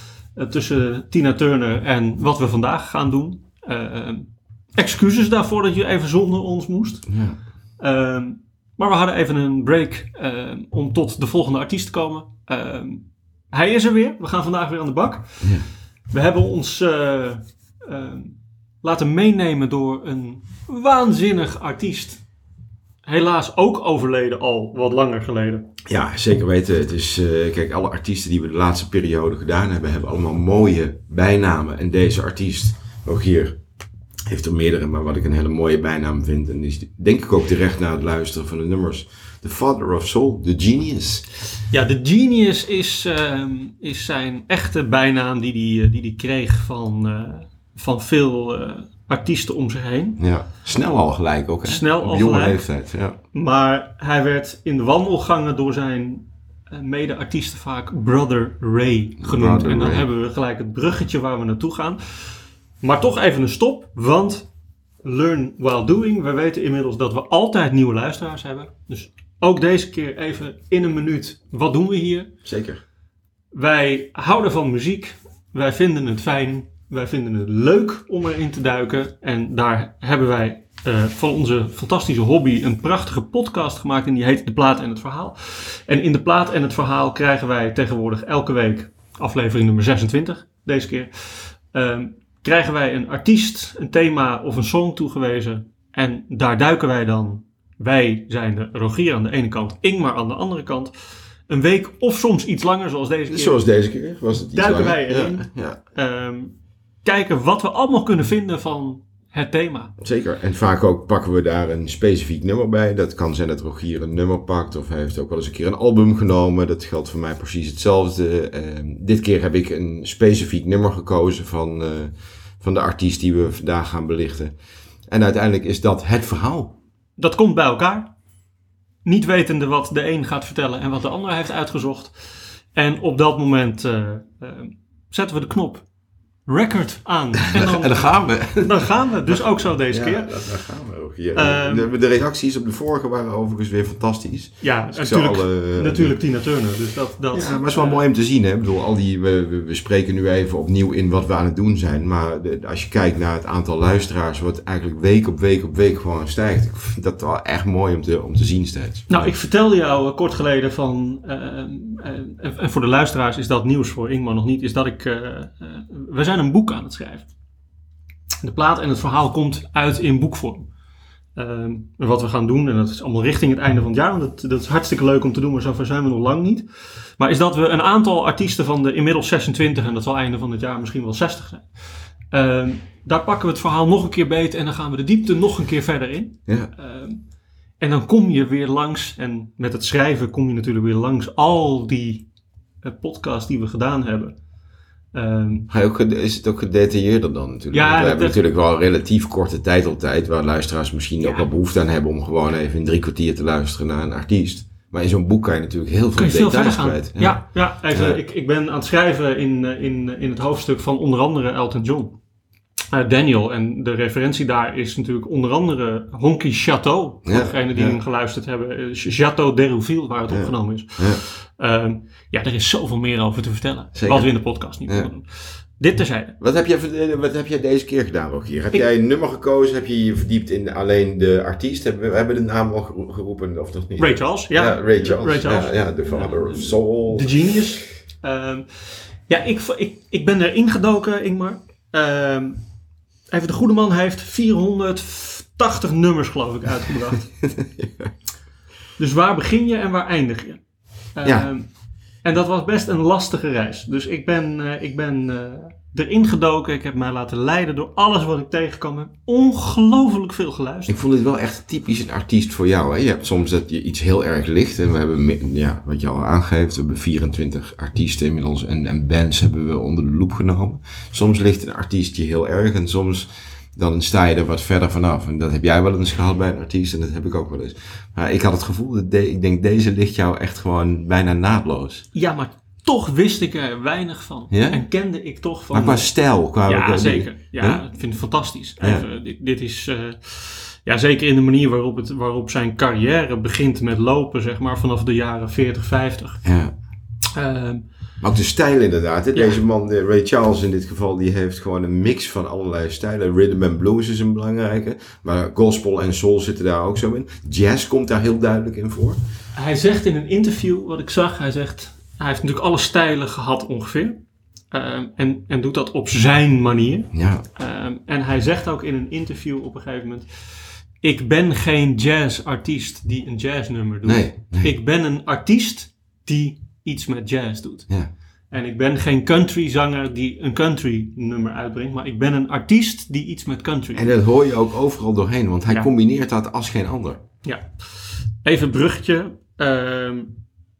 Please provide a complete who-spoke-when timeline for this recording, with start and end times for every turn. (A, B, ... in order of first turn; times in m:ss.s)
0:00.3-0:07.1 A
0:07.1-0:07.4 B
0:07.8-0:22.2 A
0:15.4-0:15.7 B
0:23.0-0:25.6 A
0:25.8-0:33.6 B
0:34.3-0:41.3 B
0:41.7-0:50.2 A
0:50.2-0:53.2 B
0:51.6-0:52.7 A
0:53.3-1:04.5 A
0:59.2-1:00.0 B
1:05.0-1:12.3 A
1:12.4-1:12.8 B
1:13.5-1:40.9 A
1:41.5-1:43.6 A
1:43.3-1:45.8 B
1:44.5-1:49.9 A
1:50.0-2:04.5 B
2:05.1-2:06.8 B
2:07.2-2:08.1 A
2:09.0-2:15.8 A
2:16.4-2:20.4 A
2:17.5-2:26.2 B
2:21.3-2:21.9 A
2:24.6-2:28.0 A
2:27.3-2:39.3 B
2:39.1-2:47.3 A
2:48.4-2:50.7 A
2:51.4-3:07.2 A
3:07.8-3:12.3 A
3:12.8-3:14.4 A
3:15.1-3:15.7 A
3:15.7-3:28.2 B
3:17.7-3:18.4 A
3:26.2-3:32.2 A
3:32.9-3:46.3 A
3:37.2-3:38.0 B
3:40.3-3:41.2 B
3:43.9-3:45.1 B
3:46.4-3:57.4 B
3:54.0-4:02.6 A
4:03.3-4:07.3 A
4:07.4-4:08.1 B
4:09.0-4:10.6 A
4:11.1-4:11.7 A
4:11.2-4:11.5 B
4:12.2-4:21.0 A
4:20.9-4:42.0 B
4:42.1-4:46.0 A
4:44.5-4:44.8 B
4:45.7-4:47.8 B
4:46.6-4:56.4 A
4:48.8-4:49.0 B
4:56.4-4:56.7 B
4:57.3-4:57.8 A
4:58.2-5:09.2 B
5:09.5-5:27.9 A
5:17.1-5:17.4 B
5:24.0-5:24.7 B
5:28.5-5:34.1 A
5:33.9-5:37.2 B
5:37.4-5:40.4 A